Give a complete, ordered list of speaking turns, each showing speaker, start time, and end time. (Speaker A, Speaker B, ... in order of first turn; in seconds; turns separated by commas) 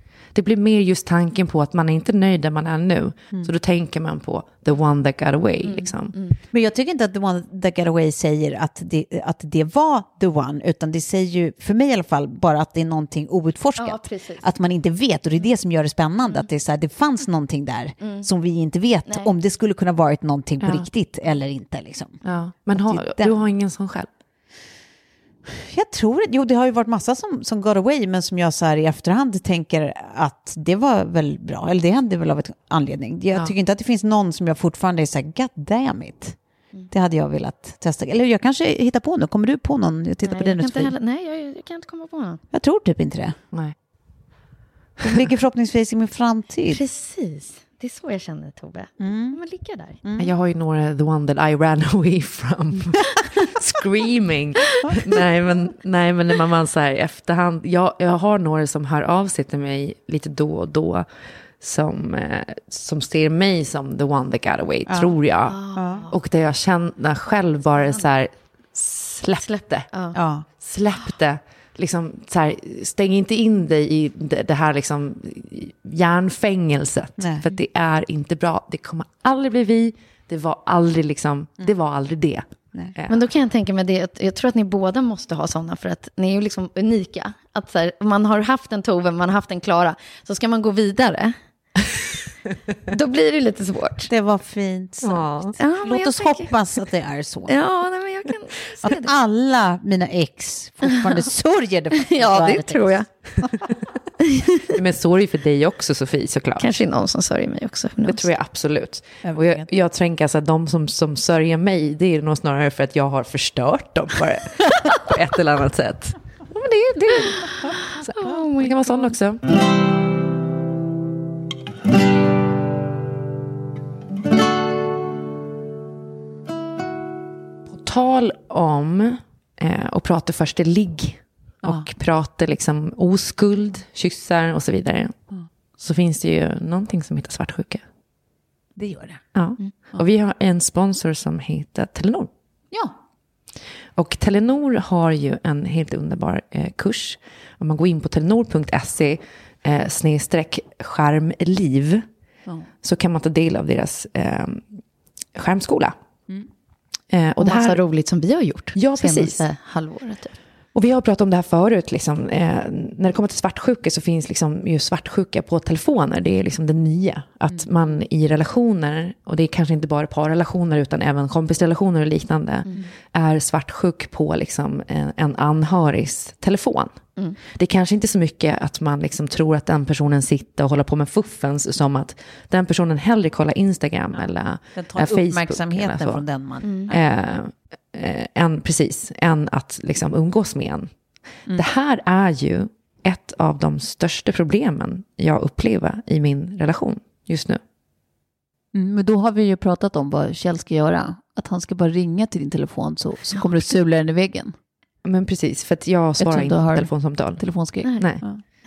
Speaker A: 0.3-6.1, Speaker B: 5.6-6.4, Speaker C: 6.5-23.3, Speaker B: 13.8-14.5, Speaker B: 18.0-18.2, Speaker B: 19.1-19.3, Speaker A: 20.6-20.9, Speaker A: 22.2-24.1, Speaker C: 25.5-36.4, Speaker C: 36.9-40.9, Speaker B: 40.2-42.4, Speaker C: 42.5-43.4, Speaker C: 45.0-46.8, Speaker B: 46.7-50.0, Speaker C: 49.0-49.4, Speaker C: 50.0-50.3, Speaker A: 50.2-61.0, Speaker A: 61.6-65.6, Speaker C: 64.9-65.2, Speaker B: 65.5-66.1, Speaker C: 65.7-66.0, Speaker A: 66.1-69.9, Speaker B: 69.4-70.2, Speaker C: 70.1-70.5, Speaker A: 70.6-83.3, Speaker C: 77.2-77.4, Speaker B: 83.1-91.3, Speaker B: 92.9-94.1, Speaker C: 94.1-97.6, Speaker A: 95.0-95.6, Speaker B: 95.6-96.5, Speaker B: 97.5-99.1, Speaker C: 98.8-103.0, Speaker B: 102.0-103.1, Speaker A: 104.7-106.8, Speaker B: 106.6-108.3, Speaker A: 108.0-119.4, Speaker C: 109.2-109.7, Speaker B: 118.1-119.1, Speaker A: 127.7-135.1, Speaker A: 135.8-137.8, Speaker C: 138.8-139.2, Speaker A: 139.3-142.3, Speaker A: 144.0-152.0, Speaker A: 152.8-154.7, Speaker A: 155.3-155.9, Speaker A: 157.1-157.8, Speaker B: 157.4-160.3, Speaker A: 158.7-159.4, Speaker A: 160.7-177.0, Speaker A: 177.5-186.2, Speaker C: 184.7-187.0, Speaker B: 186.6-186.9, Speaker A: 186.9-190.9, Speaker A: 191.5-197.6, Speaker C: 198.7-204.5, Speaker A: 205.0-207.4, Speaker C: 206.2-208.4